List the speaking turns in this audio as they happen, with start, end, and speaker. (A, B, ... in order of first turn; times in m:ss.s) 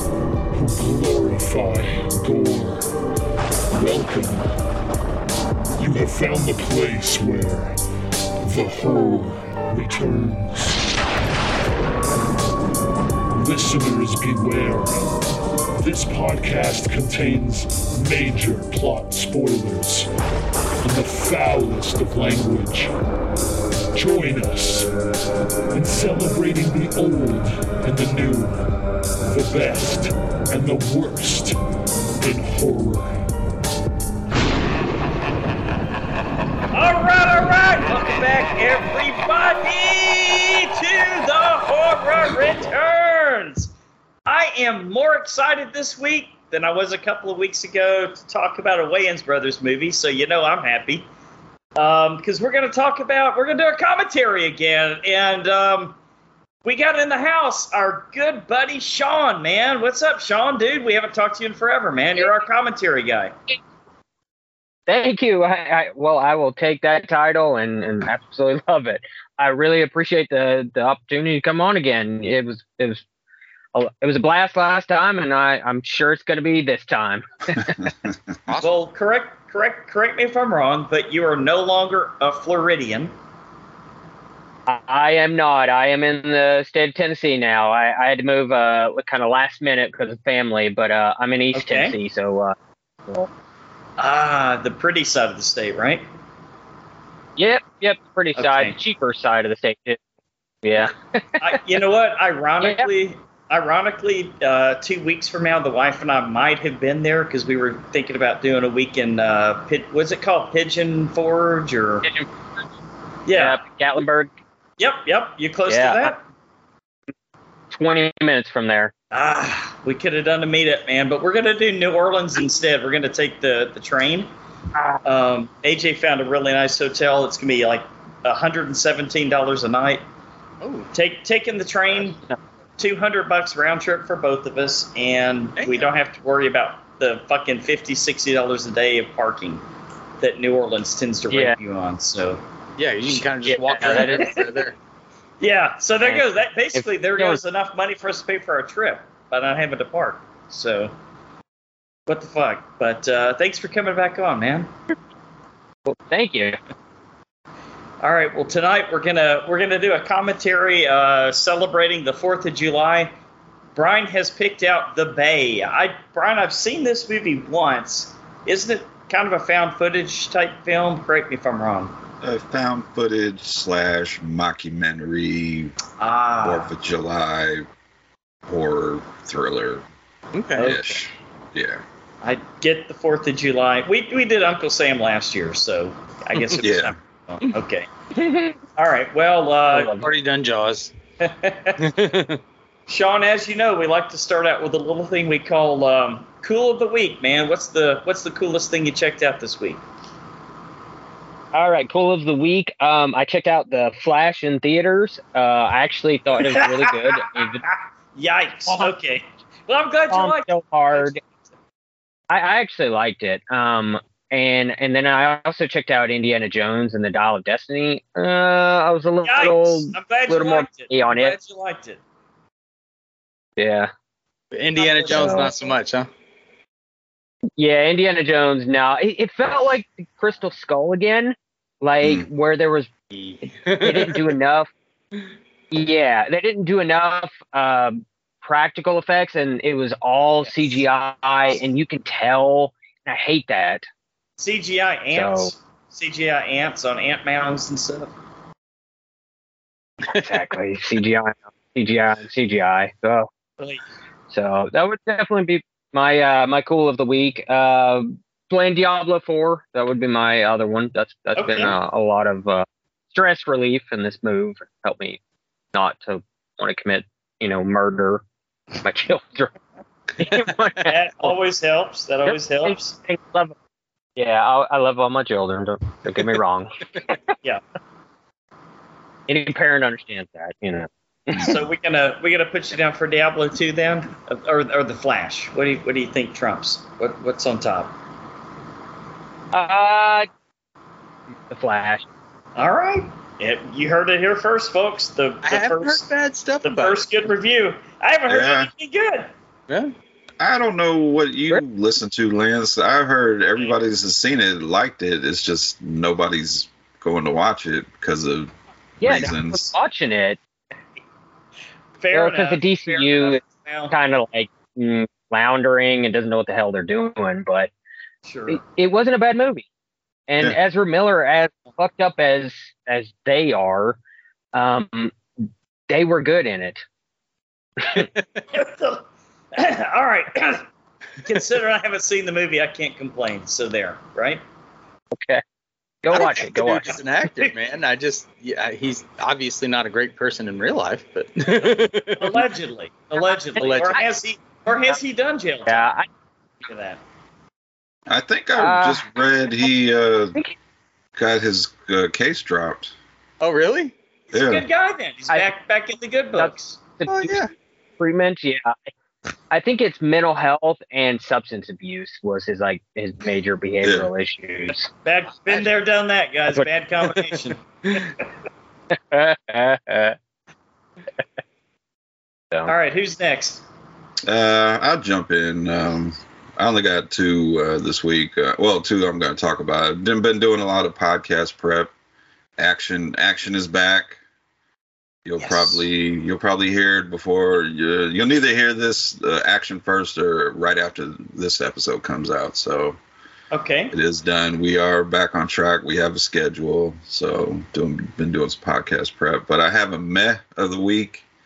0:00.5-0:02.9 A
0:03.7-0:04.4 A
0:05.8-0:07.8 A
0:08.4-0:10.8 A
0:13.3-0:15.1 A
0:15.8-0:20.1 A
0:20.8-0:22.9 A
0:23.9-0:24.9 A
0:25.7-0:28.6 A
0:29.2-0:31.6 A
0:32.2-0:33.2 A
0:36.7-0:43.7 B
0:44.2-0:51.1 B
0:51.8-0:56.0 B
0:56.6-1:03.3 B
1:04.9-1:13.0 C
1:13.7-1:17.7 C
1:18.5-1:18.9 D
1:18.6-1:23.1 B
1:24.7-1:32.5 C
1:31.5-1:31.9 B
1:34.0-1:36.0 B
1:37.4-1:40.0 C
1:38.4-1:38.8 B
1:40.6-1:41.2 C
1:41.4-1:52.1 B
1:42.6-1:42.9 C
1:53.2-1:53.6 B
1:53.3-1:54.3 C
1:54.8-1:56.2 B
1:55.7-1:56.1 C
1:57.7-1:58.9 C
1:59.1-2:04.3 B
2:05.0-2:10.0 B
2:10.6-2:10.9 D
2:10.9-2:12.2 B
2:12.8-2:19.6 B
2:15.6-2:15.9 D
2:20.2-2:22.4 B
2:21.3-2:21.6 C
2:22.8-2:24.7 D
2:23.5-2:24.3 C
2:23.8-2:24.5 B
2:25.4-2:30.9 B
2:26.0-2:27.4 C
2:32.1-2:34.7 B
2:35.8-2:36.6 C
2:38.0-2:43.1 B
2:43.7-2:52.0 B
2:52.2-2:55.7 E
2:56.0-2:56.7 B
2:56.4-2:57.6 E
2:58.4-2:59.8 E
3:00.3-3:00.8 D
3:00.6-3:01.8 E
3:02.2-3:07.9 B
3:06.6-3:06.9 E
3:08.2-3:08.5 C
3:08.8-3:09.9 B
3:09.7-3:10.1 C
3:10.0-3:10.9 D
3:11.2-3:11.8 B
3:11.8-3:12.4 D
3:12.9-3:19.8 B
3:21.5-3:27.6 C
3:26.4-3:31.3 B
3:30.1-3:31.2 C
3:32.3-3:41.4 C
3:39.2-3:42.0 B
3:43.6-3:43.9 C
3:44.5-3:46.1 D
3:44.8-3:45.4 B
3:45.1-3:45.5 C
3:47.6-3:52.9 C
3:52.0-3:52.3 E
3:53.1-3:54.3 D
3:53.8-3:54.7 C
3:55.7-4:03.8 C
4:04.4-4:08.1 B
4:05.1-4:05.5 C
4:10.1-4:13.3 C
4:14.3-4:25.2 C
4:21.4-4:21.7 B
4:25.7-4:28.2 C
4:28.8-4:29.5 C
4:30.2-4:31.4 C
4:30.9-4:32.9 B
4:32.2-4:33.5 C
4:34.2-4:37.2 C
4:39.3-4:41.6 C
4:41.4-4:47.9 B
4:49.5-4:50.3 C
4:51.5-4:52.0 C
4:52.6-4:56.0 B
4:55.4-4:57.1 D
4:56.6-4:59.3 B
4:58.3-4:58.7 E
5:00.4-5:08.5 E
5:09.0-5:10.4 C
5:09.0-5:09.7 E
5:12.0-5:13.9 B
5:12.1-5:17.7 C
5:18.2-5:18.6 B
5:18.5-5:19.6 C
5:20.3-5:24.0 C
5:24.5-5:25.1 C
5:25.9-5:26.8 C
5:27.9-5:28.4 D
5:28.5-5:30.6 B
5:31.2-5:34.4 B
5:36.0-5:37.0 C
5:36.1-5:42.4 D
5:42.2-5:45.9 B
5:43.6-5:44.0 C
5:43.6-5:44.0 D
5:45.7-5:46.0 C
5:46.6-5:47.0 B
5:48.1-5:50.4 E
5:48.6-5:49.1 C
5:51.2-5:52.9 E
5:53.4-5:53.9 D
5:54.3-5:56.8 B
5:54.3-5:54.6 E
5:56.4-5:57.4 C
5:57.1-5:57.5 D
5:58.0-5:58.8 C
5:59.5-6:04.9 C
6:03.8-6:04.1 E
6:04.9-6:07.6 B
6:09.1-6:10.2 C
6:12.6-6:13.6 B
6:14.2-6:21.9 E
6:22.6-6:24.2 E
6:25.2-6:33.0 E
6:25.4-6:25.8 B
6:33.5-6:33.9 B
6:33.9-6:41.2 E